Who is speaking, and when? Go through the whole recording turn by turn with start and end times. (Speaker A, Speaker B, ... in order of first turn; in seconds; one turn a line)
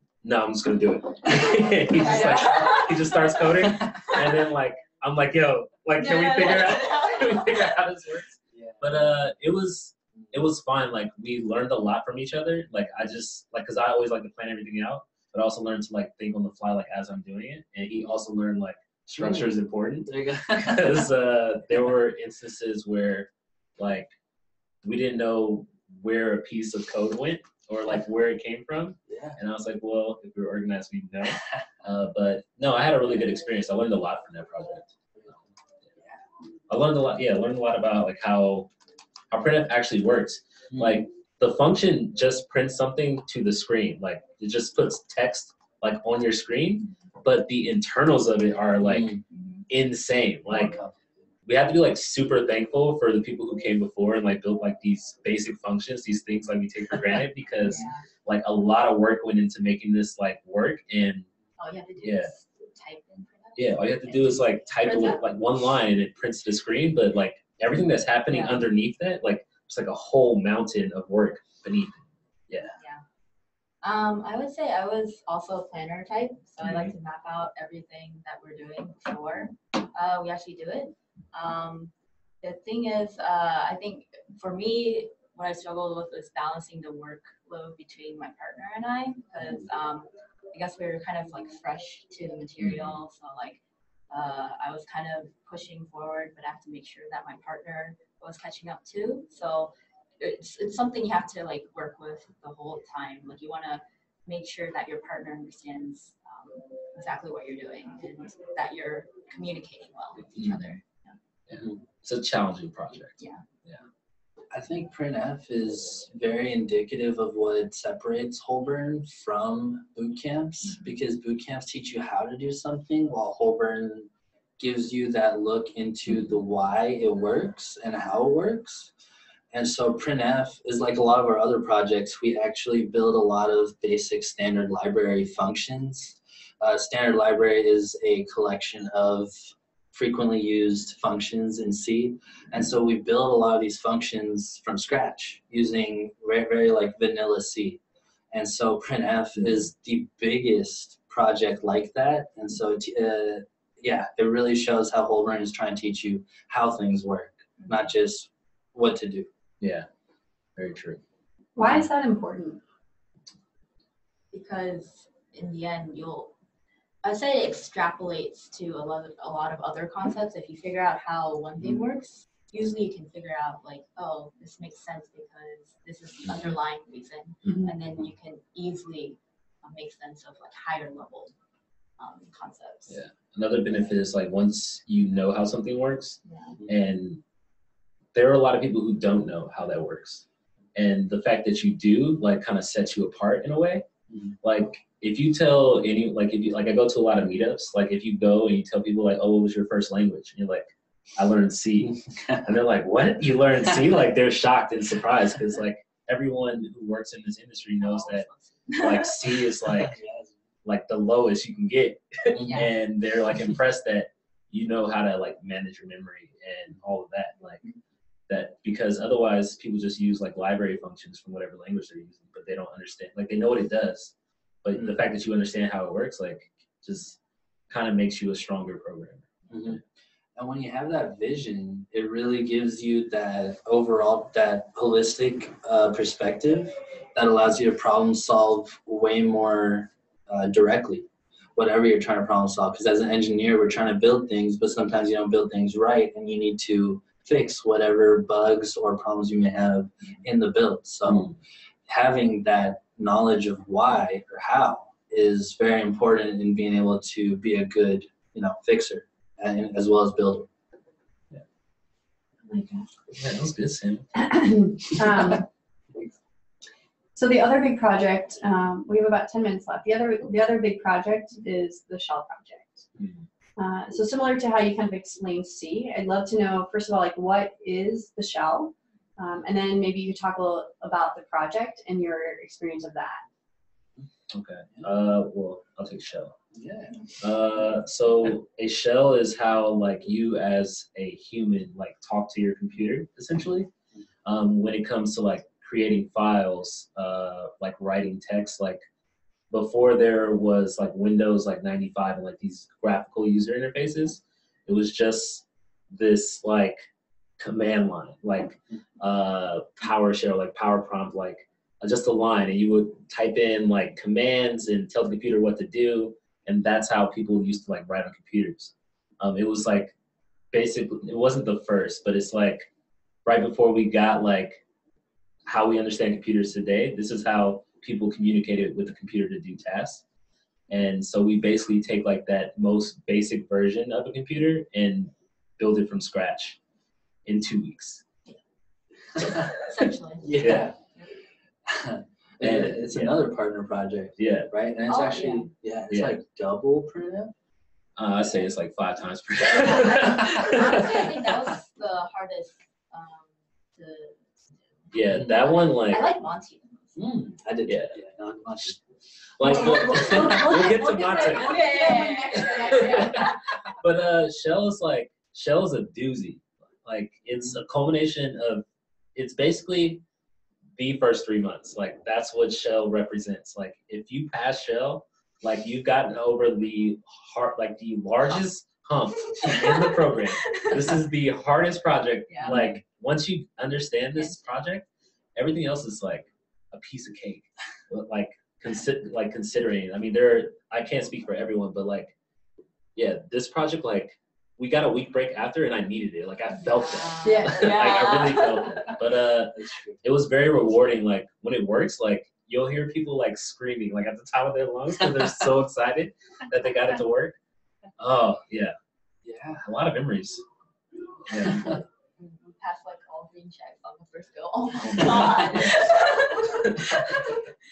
Speaker A: 0.2-24.1
Speaker B: 1.4-2.0
Speaker C: 1.8-4.3
Speaker B: 3.6-4.1
Speaker C: 6.0-7.8
Speaker B: 8.5-9.1
Speaker B: 19.2-19.5
Speaker B: 20.1-21.1
Speaker A: 24.8-34.9
Speaker B: 29.1-29.4
Speaker B: 31.3-31.6
Speaker B: 36.0-36.2
Speaker A: 36.7-38.7
Speaker A: 39.3-49.1
Speaker B: 40.7-41.0
Speaker B: 48.8-49.2
Speaker C: 49.3-49.6
Speaker A: 49.7-50.8
Speaker B: 50.5-51.1
Speaker A: 51.5-61.3
Speaker C: 57.6-58.0
Speaker C: 61.6-65.2
Speaker A: 62.0-62.3
Speaker A: 63.5-72.7
Speaker C: 68.3-68.6
Speaker C: 72.8-73.0
Speaker C: 73.8-111.2
Speaker A: 76.6-76.9
Speaker A: 92.6-93.0
Speaker A: 110.3-110.8
Speaker A: 111.5-113.8
Speaker B: 111.5-111.8
Speaker B: 114.5-124.1
Speaker B: 124.6-128.9
Speaker B: 129.5-139.4
Speaker B: 139.9-147.8
Speaker B: 148.3-159.3
Speaker C: 157.6-157.9
Speaker A: 159.6-159.8
Speaker A: 160.6-161.0
Speaker D: 161.6-162.6
Speaker C: 164.3-166.3
Speaker C: 167.0-181.3
Speaker C: 182.0-183.0
Speaker A: 182.9-187.2
Speaker C: 186.2-186.6
Speaker A: 188.1-193.8
Speaker A: 194.4-210.0
Speaker B: 201.8-202.5
Speaker C: 207.8-209.5
Speaker B: 209.7-210.3
Speaker A: 210.6-217.6
Speaker B: 212.3-212.7
Speaker C: 212.4-212.7
Speaker A: 218.3-229.8
Speaker B: 224.7-225.0
Speaker B: 229.5-229.8
Speaker B: 230.3-251.3
Speaker B: 251.9-260.5
Speaker D: 262.5-262.9
Speaker A: 263.1-264.1
Speaker D: 264.1-265.5
Speaker D: 267.1-272.9
Speaker A: 273.0-273.2
Speaker D: 273.6-283.2
Speaker A: 284.3-286.3
Speaker B: 286.5-287.1
Speaker A: 287.2-293.7
Speaker A: 294.2-298.8
Speaker A: 299.5-306.9
Speaker A: 307.4-319.9
Speaker A: 320.5-322.7
Speaker A: 323.2-324.6
Speaker A: 325.4-330.0
Speaker A: 330.7-336.6
Speaker A: 337.2-338.0
Speaker B: 339.1-339.6
Speaker C: 339.2-340.4
Speaker B: 340.2-340.8
Speaker A: 340.4-340.7
Speaker B: 341.6-347.3
Speaker A: 342.4-343.1
Speaker A: 344.2-344.5
Speaker C: 344.9-345.5
Speaker A: 345.9-346.2
Speaker A: 348.0-351.1
Speaker C: 349.5-357.0
Speaker B: 350.0-350.4
Speaker A: 354.9-356.0
Speaker B: 356.9-358.8
Speaker A: 357.7-357.9
Speaker B: 359.4-360.7
Speaker A: 359.4-361.6
Speaker D: 359.4-363.3
Speaker C: 361.1-363.4
Speaker A: 362.8-363.3
Speaker A: 363.8-370.0
Speaker B: 367.3-367.6
Speaker A: 370.8-392.1
Speaker C: 380.4-380.8
Speaker C: 382.3-382.6
Speaker C: 384.2-384.5
Speaker A: 392.9-407.3
Speaker C: 396.6-399.0
Speaker D: 397.2-397.7
Speaker B: 399.5-400.2
Speaker A: 408.0-408.7
Speaker B: 409.2-409.6
Speaker A: 409.6-410.4
Speaker A: 411.2-411.8
Speaker B: 411.3-411.8
Speaker C: 412.2-417.5
Speaker A: 414.8-415.9
Speaker B: 414.9-415.8
Speaker A: 416.6-417.0